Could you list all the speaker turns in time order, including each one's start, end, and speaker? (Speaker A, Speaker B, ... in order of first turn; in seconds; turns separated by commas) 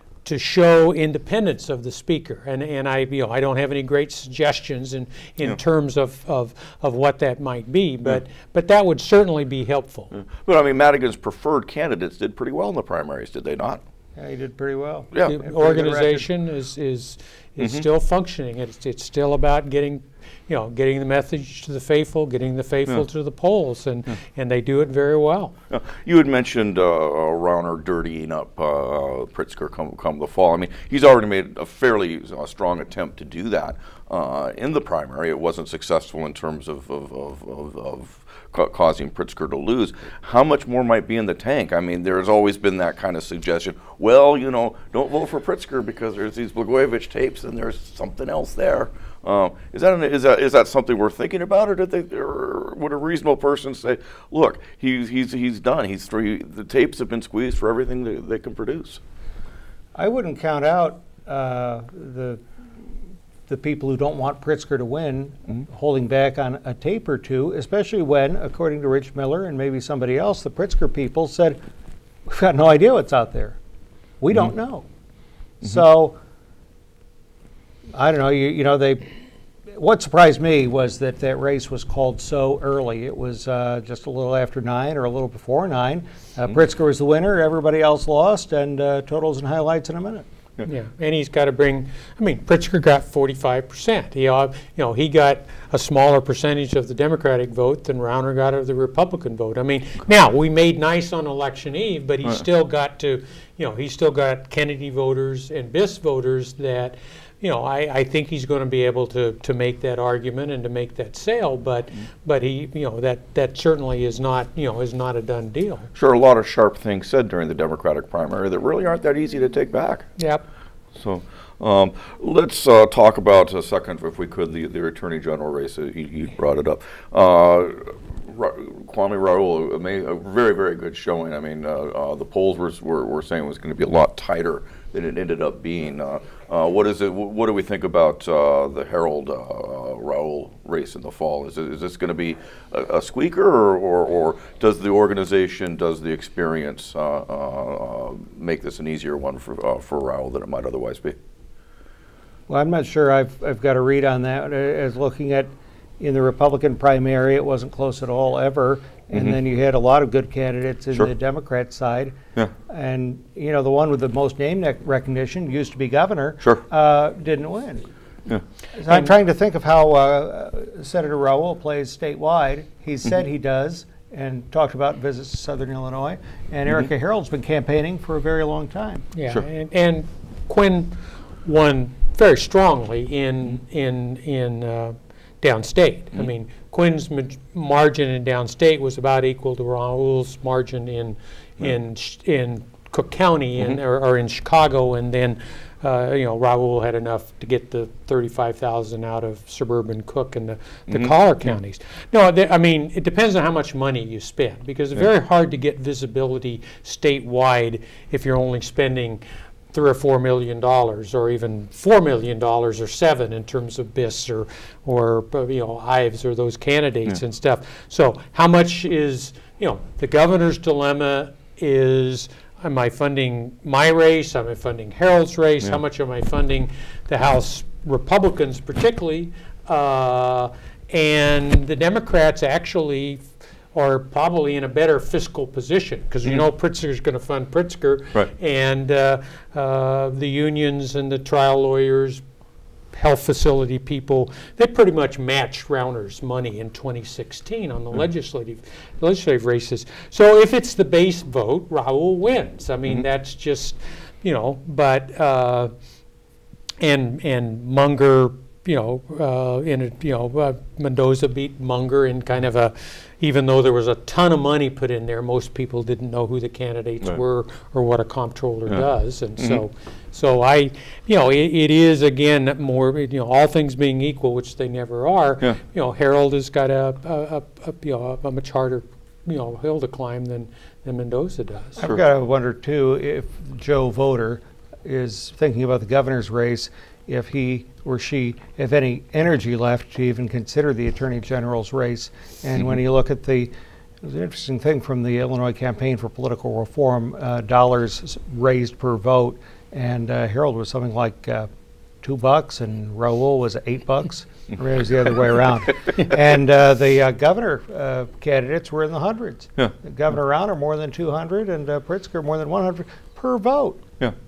Speaker A: 0.2-10.1, Speaker B: 10.1-13.8, Speaker C: 14.2-16.3, Speaker B: 15.1-15.4, Speaker A: 15.2-25.5, Speaker B: 25.7-59.0, Speaker C: 59.9-62.4, Speaker C: 63.5-71.6, Speaker C: 72.2-73.6, Speaker C: 74.2-74.8, Speaker C: 75.6-76.2, Speaker C: 77.9-79.0, Speaker C: 79.7-90.3, Speaker A: 90.6-115.9, Speaker B: 115.9-120.1, Speaker A: 120.2-120.4, Speaker B: 121.0-151.2, Speaker C: 152.5-167.9, Speaker C: 168.7-179.1, Speaker A: 179.1-209.2, Speaker B: 200.9-201.1, Speaker A: 209.7-242.2, Speaker A: 242.9-255.7, Speaker A: 256.8-281.8, Speaker C: 281.8-301.5, Speaker C: 302.0-313.8